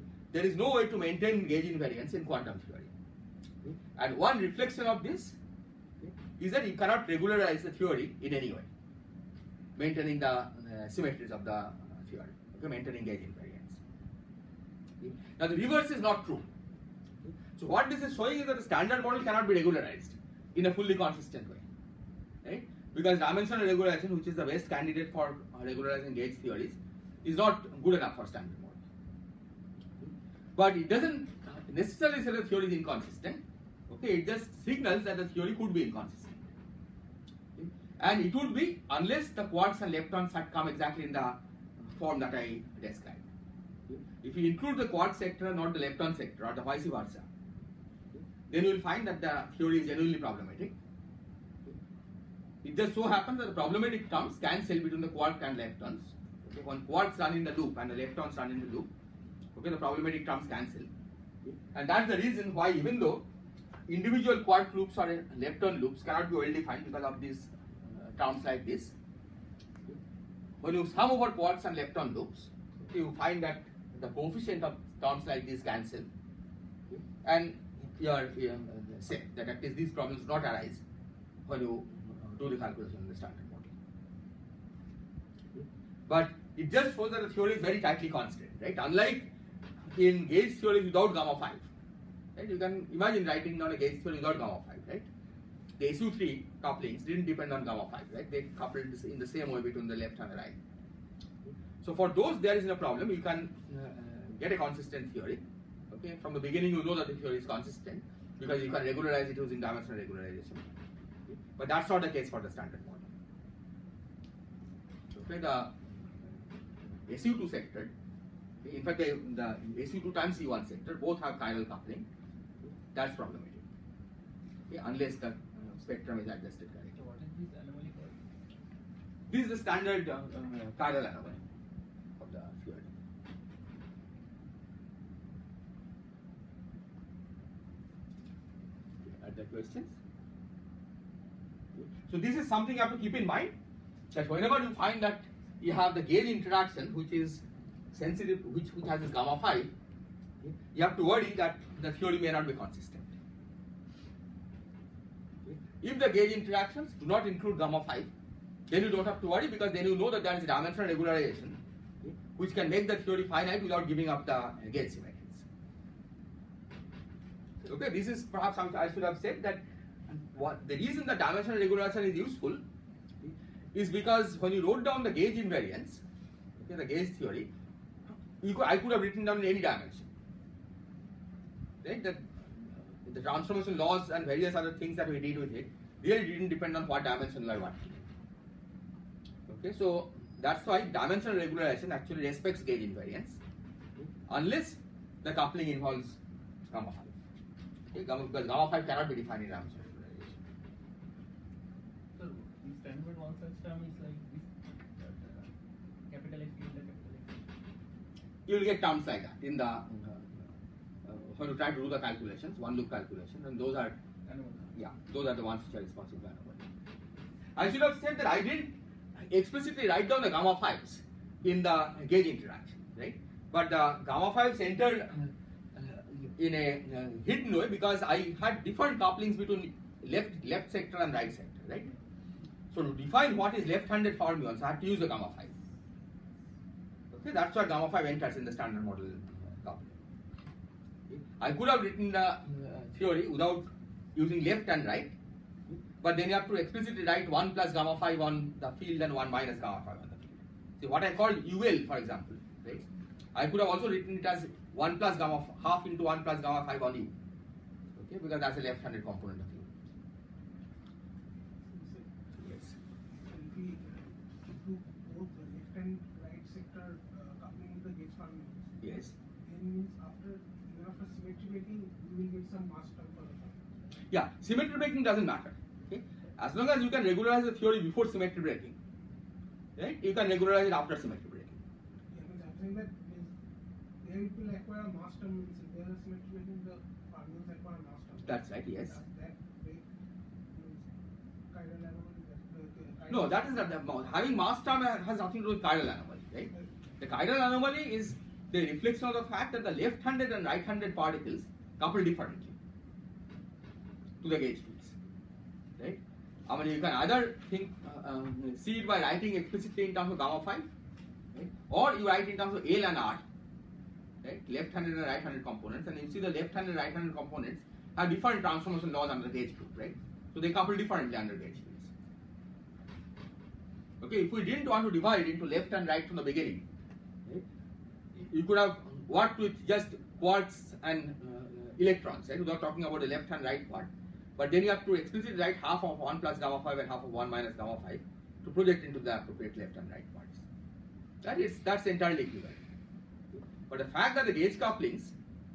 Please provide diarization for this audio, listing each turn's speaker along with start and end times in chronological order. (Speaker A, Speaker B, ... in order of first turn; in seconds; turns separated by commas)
Speaker A: 0.3-2.9, Speaker A: 4.0-5.4, Speaker A: 6.4-8.7, Speaker A: 9.8-13.8, Speaker A: 15.0-16.5, Speaker A: 17.6-21.6, Speaker A: 22.4-28.8, Speaker A: 30.6-36.5, Speaker A: 37.6-43.3, Speaker A: 43.9-47.3, Speaker A: 48.5-50.8, Speaker A: 52.6-58.9, Speaker A: 59.6-60.9, Speaker A: 61.7-63.2, Speaker A: 63.9-68.9, Speaker A: 70.6-76.1, Speaker A: 77.2-80.8, Speaker A: 81.5-83.7, Speaker A: 86.1-89.3, Speaker A: 89.9-91.7, Speaker A: 92.4-95.1, Speaker A: 95.8-100.6, Speaker A: 101.8-110.7, Speaker A: 111.6-113.1, Speaker A: 115.1-115.8, Speaker A: 117.0-117.9, Speaker A: 118.6-122.1, Speaker A: 122.9-123.6, Speaker A: 124.7-127.0, Speaker B: 127.0-128.2, Speaker A: 129.3-131.4, Speaker A: 132.2-132.9, Speaker A: 139.0-139.9, Speaker A: 142.1-143.5, Speaker A: 144.1-149.7, Speaker A: 150.4-153.2, Speaker A: 155.5-158.1, Speaker A: 158.7-161.6, Speaker A: 162.4-165.4, Speaker A: 167.7-172.6, Speaker A: 173.7-176.0, Speaker A: 176.6-177.5, Speaker A: 178.4-180.1, Speaker A: 181.8-188.1, Speaker A: 189.5-193.4, Speaker A: 194.3-196.2, Speaker A: 196.7-197.2, Speaker A: 197.9-200.4, Speaker B: 202.2-205.5, Speaker B: 206.1-207.4, Speaker A: 208.5-210.5, Speaker A: 211.1-214.0, Speaker B: 214.2-214.7, Speaker A: 214.7-216.7, Speaker A: 217.6-231.9, Speaker A: 232.7-235.5, Speaker A: 237.1-240.0, Speaker A: 241.1-245.2, Speaker A: 246.0-257.1, Speaker A: 258.0-259.7, Speaker C: 261.7-262.1, Speaker A: 262.4-262.8, Speaker C: 263.2-268.7, Speaker A: 268.8-269.1, Speaker C: 269.4-273.8, Speaker A: 274.1-278.8, Speaker A: 279.8-281.6, Speaker C: 282.1-283.3, Speaker C: 284.0-289.9, Speaker A: 288.3-289.0, Speaker C: 290.5-291.0, Speaker C: 291.5-293.7, Speaker A: 293.1-302.6, Speaker A: 304.2-304.9, Speaker A: 305.8-310.7, Speaker A: 311.3-313.2, Speaker A: 314.2-321.9, Speaker A: 324.0-326.7, Speaker A: 328.2-340.4, Speaker A: 341.2-342.6, Speaker A: 343.7-345.1